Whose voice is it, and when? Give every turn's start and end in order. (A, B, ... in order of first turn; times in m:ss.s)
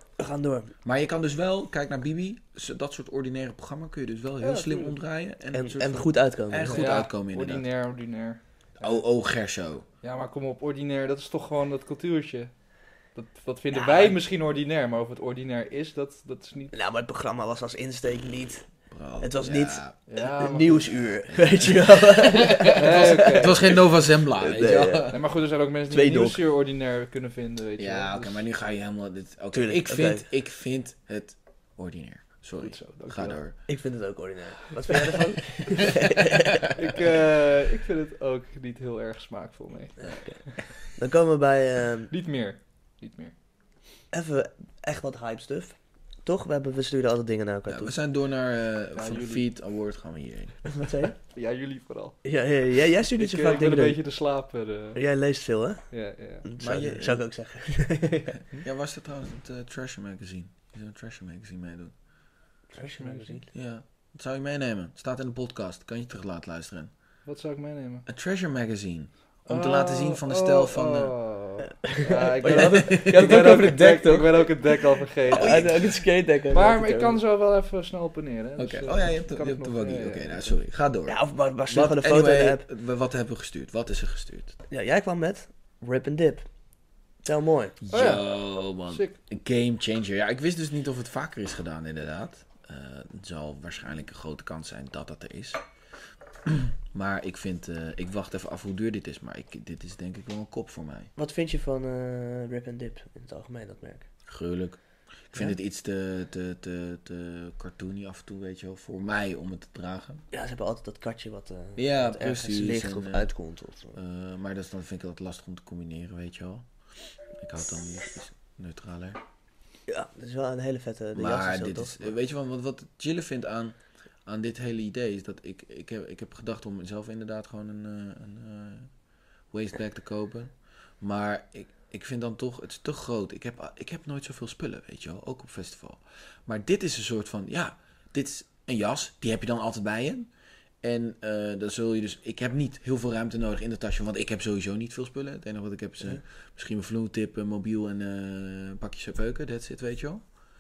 0:00.2-0:00.8 A
0:00.8-0:07.7 B
0:04.4-0:05.0 C
0:05.5-0:06.9 A
0:06.7-0:09.0 C
0:08.8-0:09.8 B
0:10.0-0:16.7 C
0:13.7-0:14.2 A
0:16.7-0:25.2 A
0:18.9-0:20.0 B
0:20.1-0:21.0 C
0:21.3-0:25.2 B
0:22.7-0:23.7 C
0:25.1-0:28.4 C
0:25.9-0:26.4 A
0:27.8-0:33.6 B
0:29.5-0:30.3 A
0:32.6-0:33.4 C
0:33.7-0:36.6 A
0:36.7-0:40.2 C
0:40.0-0:42.1 A
0:42.1-0:43.3 C
0:44.1-0:47.9 A
0:47.7-0:50.6 B
0:49.0-0:49.5 C
0:50.7-0:51.2 A
0:51.3-0:52.2 C
0:52.2-0:54.0 A
0:53.2-0:55.0 C
0:55.0-0:58.4 A
0:55.9-0:56.4 C
0:56.6-0:57.3 B
0:58.6-1:02.0 B
1:02.7-1:03.5 A
1:02.8-1:03.4 C
1:03.5-1:06.9 B
1:07.2-1:08.1 C
1:08.1-1:11.2 B
1:09.5-1:20.6 C
1:12.0-1:17.2 A
1:12.5-1:13.5 B
1:15.3-1:16.0 B
1:18.6-1:24.6 B
1:21.1-1:22.7 A
1:24.7-1:26.5 A
1:27.2-1:27.8 A
1:27.8-1:35.6 B
1:27.9-1:29.2 C
1:36.4-1:41.1 B
1:41.2-1:44.1 A
1:44.3-1:50.2 B
1:50.3-1:54.0 A
1:51.8-1:53.3 B
1:53.9-1:59.2 B
1:59.9-2:02.2 A
2:01.1-2:08.9 B
2:09.5-2:20.3 B
2:20.8-2:30.3 B